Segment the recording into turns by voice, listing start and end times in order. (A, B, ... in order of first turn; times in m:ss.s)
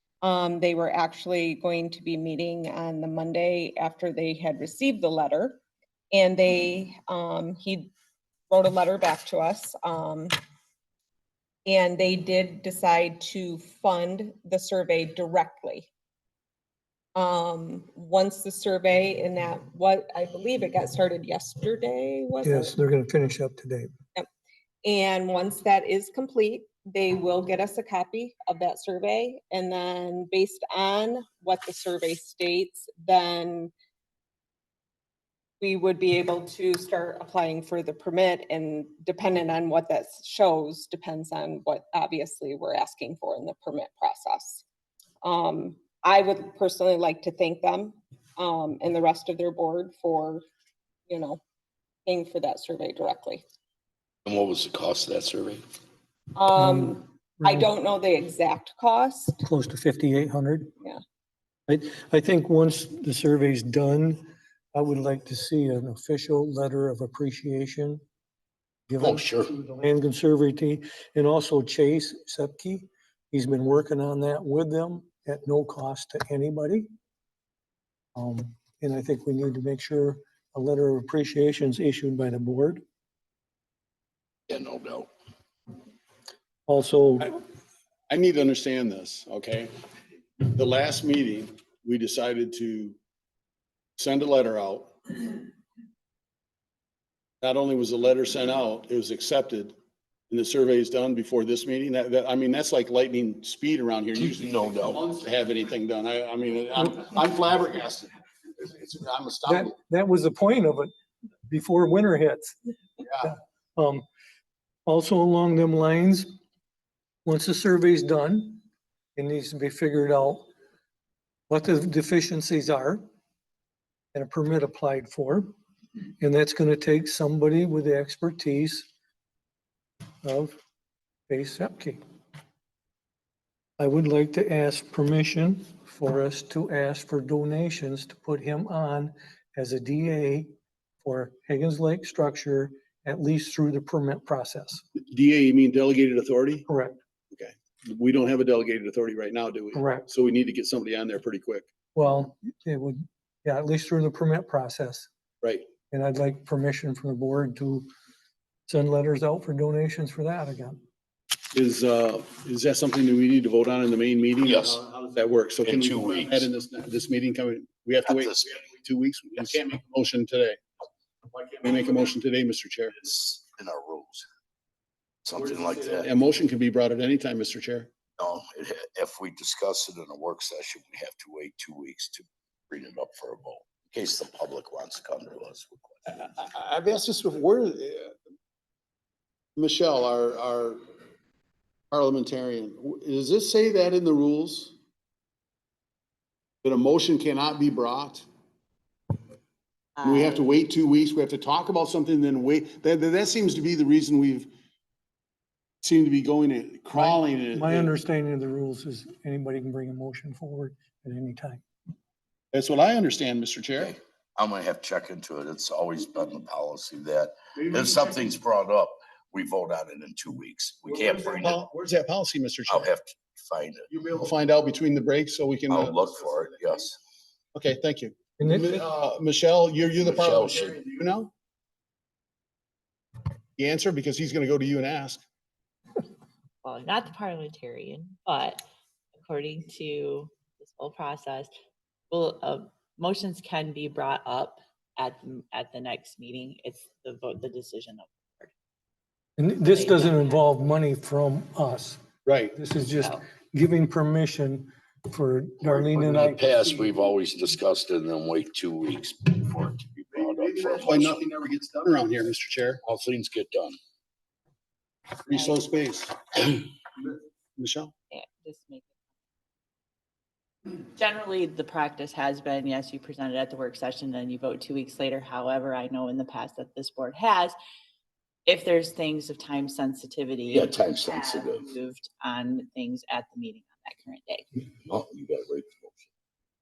0:00.2-0:05.6 A
0:06.1-0:07.9 A
0:08.5-0:10.4 A
0:11.6-0:15.9 A
0:17.2-0:22.7 A
0:22.4-0:23.9 B
0:24.8-0:33.7 A
0:35.6-0:44.6 A
0:45.2-0:50.4 A
0:51.1-0:51.4 A
0:52.1-0:53.4 A
0:54.2-0:55.6 C
0:56.4-0:59.4 A
0:56.6-0:57.7 B
0:59.4-1:00.7 B
1:01.7-1:08.0 B
1:08.9-1:16.9 B
1:09.0-1:09.6 C
1:18.2-1:22.8 B
1:24.5-1:25.1 C
1:26.7-1:27.4 B
1:28.1-1:29.7 D
1:30.4-1:33.0 D
1:34.0-1:35.3 D
1:37.4-1:39.8 D
1:40.3-1:49.8 D
1:44.2-1:45.0 C
1:49.5-1:50.9 B
1:51.5-1:54.0 B
1:54.9-1:56.3 B
1:57.2-1:58.6 B
1:59.2-2:00.5 B
2:01.5-2:03.0 B
2:04.1-2:05.5 B
2:06.2-2:08.9 B
2:10.2-2:10.6 B
2:11.3-2:12.0 B
2:13.8-2:20.5 B
2:21.0-2:24.8 B
2:25.0-2:26.7 D
2:26.7-2:27.0 B
2:27.3-2:31.7 D
2:29.7-2:30.1 B
2:32.0-2:35.1 B
2:35.4-2:35.7 D
2:35.9-2:37.9 B
2:38.7-2:40.8 B
2:41.5-2:50.6 D
2:44.4-2:44.8 C
2:45.6-2:46.5 C
2:48.1-2:48.6 C
2:51.3-2:53.0 D
2:53.0-2:54.3 C
2:55.2-2:56.1 C
2:55.9-2:57.9 D
2:58.2-3:06.2 C
3:06.1-3:08.1 D
3:09.6-3:10.8 D
3:11.9-3:14.8 D
3:16.6-3:18.3 D
3:20.0-3:20.4 E
3:20.0-3:24.5 D
3:25.8-3:27.9 D
3:26.9-3:31.6 B
3:32.5-3:34.0 D
3:33.8-3:41.6 C
3:40.9-3:42.9 D
3:42.7-3:43.9 C
3:43.9-3:46.0 D
3:45.7-3:47.0 C
3:47.5-3:51.3 D
3:48.4-3:48.8 B
3:50.0-3:50.8 C
3:53.6-3:55.2 D
3:56.6-3:58.6 E
3:59.2-4:01.5 E
4:02.1-4:08.5 E
4:09.4-4:12.0 B
4:09.6-4:10.4 E
4:12.2-4:12.6 D
4:12.6-4:16.4 B
4:15.6-4:21.2 C
4:20.2-4:22.8 D
4:22.8-4:23.8 C
4:25.2-4:26.2 D
4:27.6-4:27.9 D
4:28.1-4:28.9 E
4:30.9-4:37.6 E
4:38.4-4:44.5 E
4:40.5-4:41.7 C
4:44.8-4:46.1 C